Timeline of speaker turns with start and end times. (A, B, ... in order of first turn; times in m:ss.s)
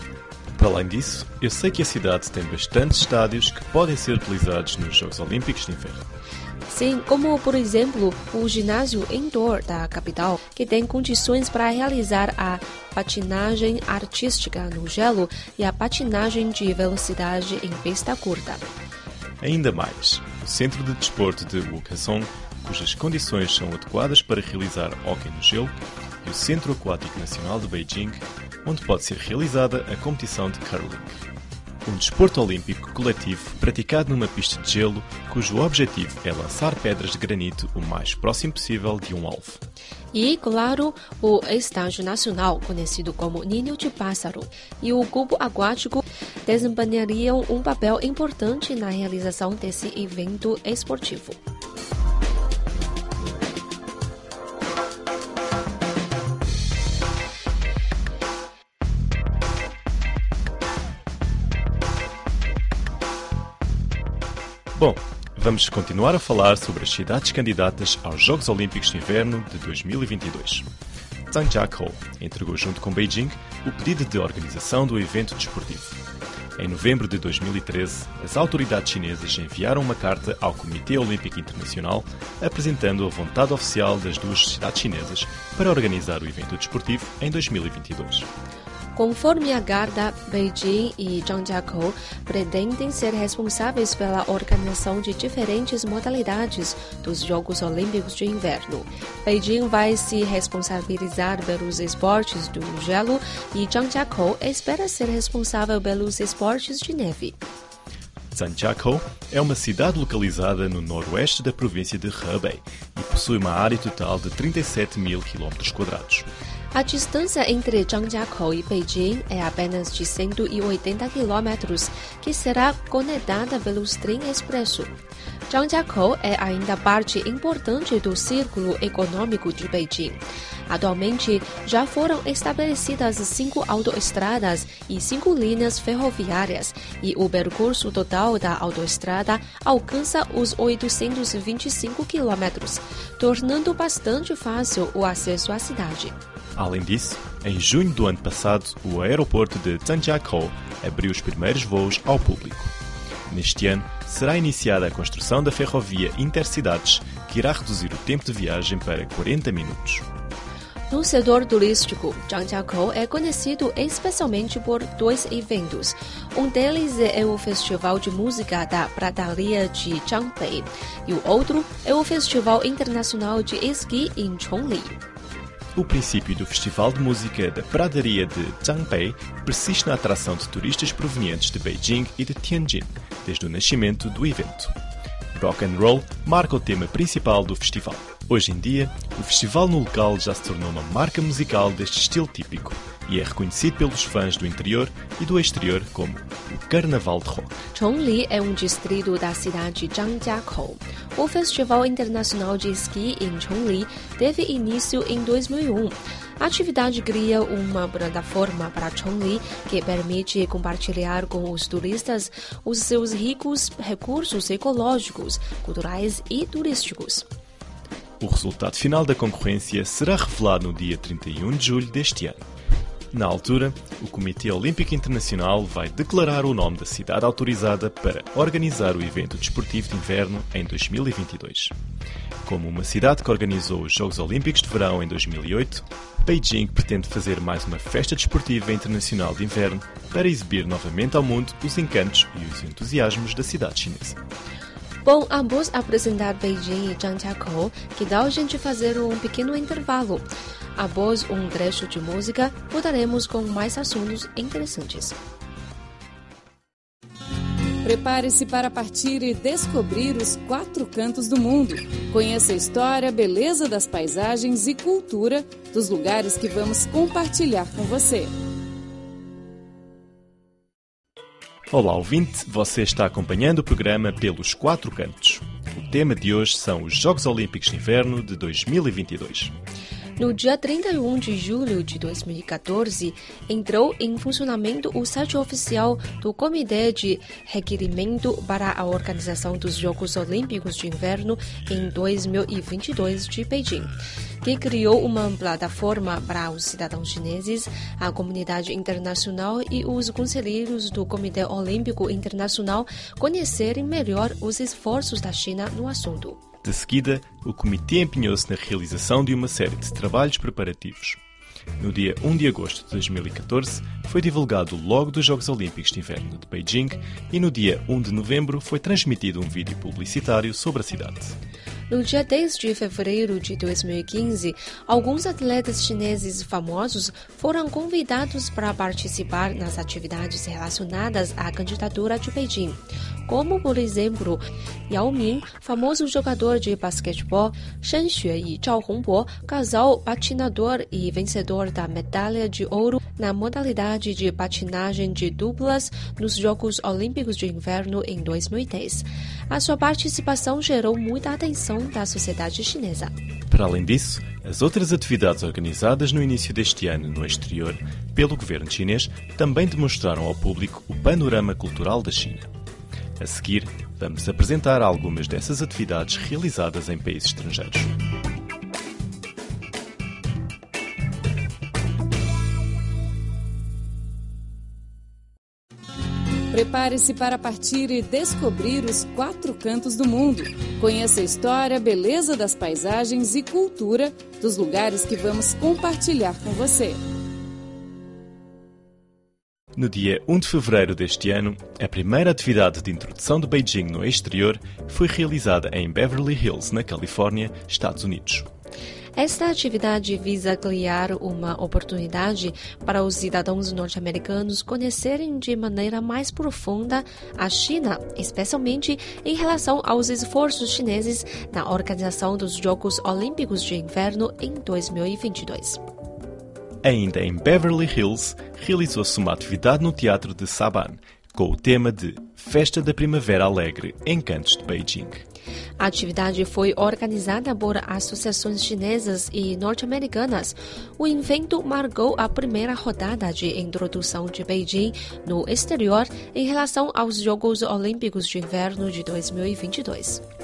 0:00.6-0:06.0 A
0:06.7-0:18.6 B
0:19.4-0:31.2 A
0:31.9-0:39.6 A
0:40.1-0:51.4 B
1:04.8-1:10.7 A
1:11.3-1:16.0 A
1:16.6-1:28.3 A
1:29.0-1:47.4 B
1:48.3-1:56.3 A
1:56.7-2:05.0 B
2:05.5-2:26.2 B
2:26.6-2:32.7 A
2:33.3-2:40.1 A
2:40.9-2:55.0 B
2:55.8-3:04.7 A
3:05.4-3:17.6 A
3:17.7-3:37.2 B
3:38.2-3:42.4 A
3:43.1-3:51.7 A
3:52.4-4:04.2 A
4:05.0-4:15.2 B
4:17.8-4:28.3 C
4:31.7-4:39.5 A
4:40.2-4:53.9 B
4:54.4-5:06.4 B
5:06.6-5:11.2 A
5:11.8-5:21.3 A
5:21.9-5:53.1 B
5:53.5-6:02.5 A
6:03.2-6:07.9 A
6:16.5-6:27.0 C
6:29.8-6:38.5 A
6:39.2-6:55.8 B
6:56.8-7:05.2 A
7:05.8-7:20.2 B